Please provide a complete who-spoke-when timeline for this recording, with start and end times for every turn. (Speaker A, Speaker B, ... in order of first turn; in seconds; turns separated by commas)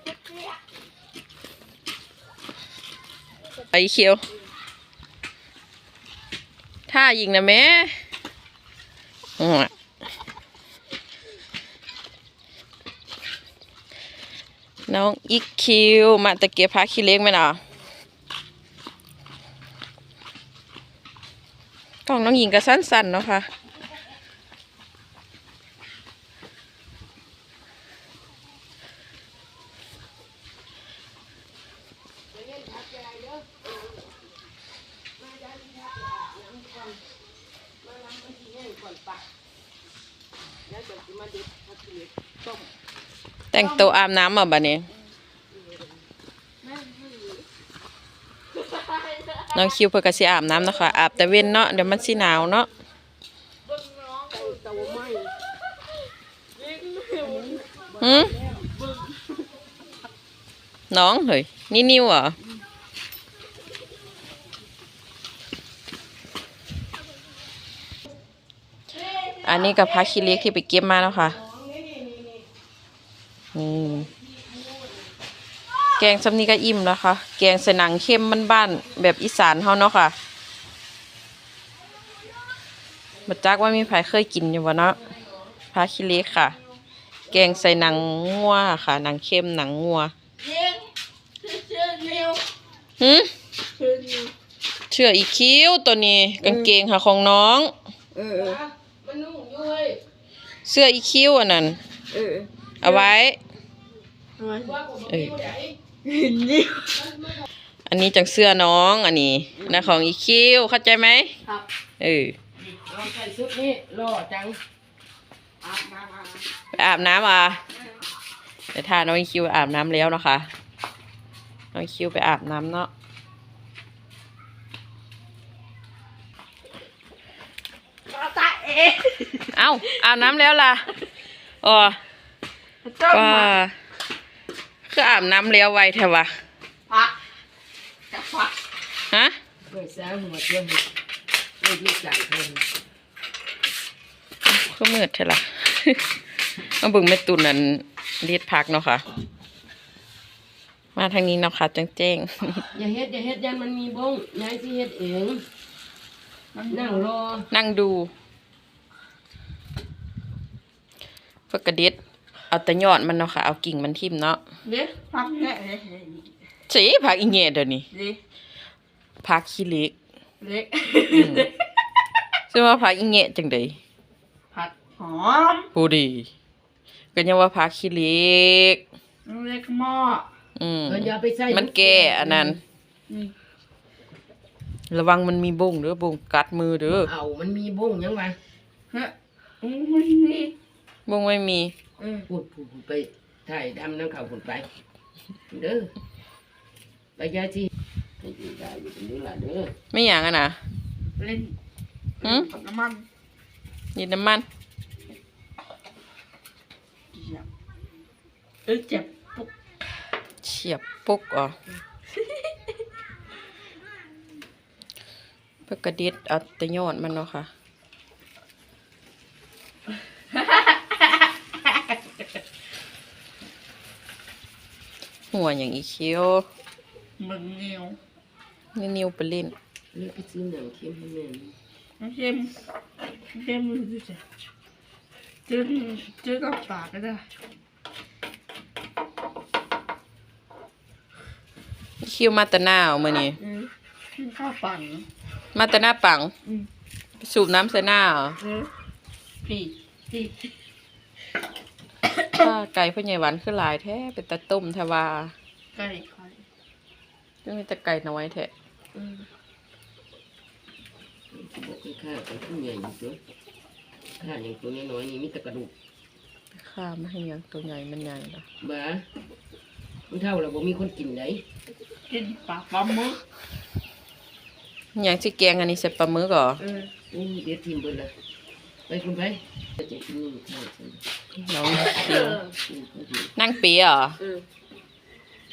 Speaker A: 3.7-4.2, Speaker A: 6.9-8.0, Speaker A: 9.4-9.7, Speaker A: 14.9-17.6, Speaker A: 22.1-23.5, Speaker B: 32.3-34.0, Speaker B: 35.2-37.0, Speaker B: 37.8-39.2, Speaker B: 40.7-42.1, Speaker A: 43.5-44.9, Speaker C: 43.5-44.0, Speaker B: 45.5-46.0, Speaker C: 46.6-47.5, Speaker C: 48.7-49.6, Speaker A: 49.5-52.7, Speaker C: 53.7-55.0, Speaker B: 54.3-55.3, Speaker C: 56.6-57.7, Speaker B: 57.2-58.7, Speaker A: 58.0-58.4, Speaker C: 58.8-59.2, Speaker A: 60.9-62.4, Speaker A: 69.3-71.4, Speaker B: 69.7-69.9, Speaker B: 71.4-72.4, Speaker A: 73.5-74.1, Speaker B: 74.3-74.8, Speaker A: 76.0-80.2, Speaker A: 83.3-85.0, Speaker A: 85.7-86.6, Speaker A: 87.3-90.1, Speaker B: 90.4-90.8, Speaker B: 91.5-92.3, Speaker C: 92.0-92.3, Speaker A: 93.0-93.3, Speaker C: 93.8-94.3, Speaker A: 94.9-97.7, Speaker C: 96.4-96.7, Speaker C: 98.1-98.6, Speaker B: 98.3-100.0, Speaker A: 100.7-101.8, Speaker C: 102.1-103.1, Speaker A: 102.8-103.4, Speaker C: 104.4-104.8, Speaker B: 104.5-105.8, Speaker C: 106.0-107.0, Speaker B: 106.9-107.5, Speaker A: 107.9-111.3, Speaker A: 112.0-112.3, Speaker B: 112.8-114.6, Speaker C: 115.6-116.5, Speaker A: 116.7-117.6, Speaker A: 118.7-120.5, Speaker A: 121.7-122.9, Speaker C: 128.1-130.2, Speaker A: 129.5-130.9, Speaker A: 131.6-132.0, Speaker C: 132.8-133.5, Speaker A: 133.1-133.7, Speaker A: 134.9-136.3, Speaker C: 136.9-137.2, Speaker C: 138.1-138.6, Speaker A: 139.1-139.4, Speaker B: 139.7-140.8, Speaker B: 141.6-142.6, Speaker A: 144.4-149.0, Speaker A: 150.9-152.7, Speaker B: 152.7-155.4, Speaker C: 156.5-157.1, Speaker B: 156.7-157.5, Speaker A: 157.5-158.1, Speaker A: 161.5-162.0, Speaker A: 162.5-164.4, Speaker C: 164.7-166.3, Speaker A: 166.7-167.9, Speaker C: 167.9-168.2, Speaker A: 169.2-169.9, Speaker C: 170.4-171.5, Speaker A: 171.1-171.5, Speaker A: 172.5-173.8, Speaker C: 174.5-175.7, Speaker A: 175.7-176.3, Speaker A: 177.1-178.8, Speaker C: 179.3-180.3, Speaker A: 180.6-182.6, Speaker B: 180.9-182.6, Speaker C: 183.1-183.3, Speaker A: 184.9-187.1, Speaker B: 187.0-188.4, Speaker C: 188.9-190.5, Speaker A: 191.1-191.7, Speaker C: 192.0-192.3, Speaker B: 192.3-194.7, Speaker B: 195.5-195.9, Speaker B: 197.2-197.7, Speaker B: 198.2-199.7, Speaker A: 199.9-200.6, Speaker C: 201.2-201.6, Speaker C: 202.2-203.1, Speaker A: 202.2-202.5, Speaker A: 203.9-204.5, Speaker C: 207.1-207.5, Speaker C: 208.7-209.5, Speaker A: 210.4-211.6, Speaker A: 215.7-217.5, Speaker A: 225.3-226.5, Speaker C: 227.2-228.0, Speaker A: 228.8-229.6, Speaker B: 229.9-231.6, Speaker C: 232.0-232.6, Speaker C: 233.3-234.2, Speaker C: 235.5-237.2, Speaker A: 242.0-243.4, Speaker C: 243.4-245.1, Speaker A: 245.5-246.3, Speaker A: 247.2-248.4, Speaker C: 248.4-248.7, Speaker C: 249.4-250.3, Speaker A: 252.3-255.3, Speaker C: 255.8-256.4, Speaker A: 257.4-258.5, Speaker C: 258.9-259.3, Speaker B: 261.3-263.2, Speaker B: 264.2-265.7, Speaker A: 266.5-268.4, Speaker B: 268.6-269.0, Speaker B: 270.1-271.4, Speaker C: 272.1-273.2, Speaker A: 274.9-276.6, Speaker B: 277.1-278.1, Speaker B: 278.9-281.0, Speaker A: 281.4-282.4, Speaker B: 282.1-283.3, Speaker A: 283.4-284.2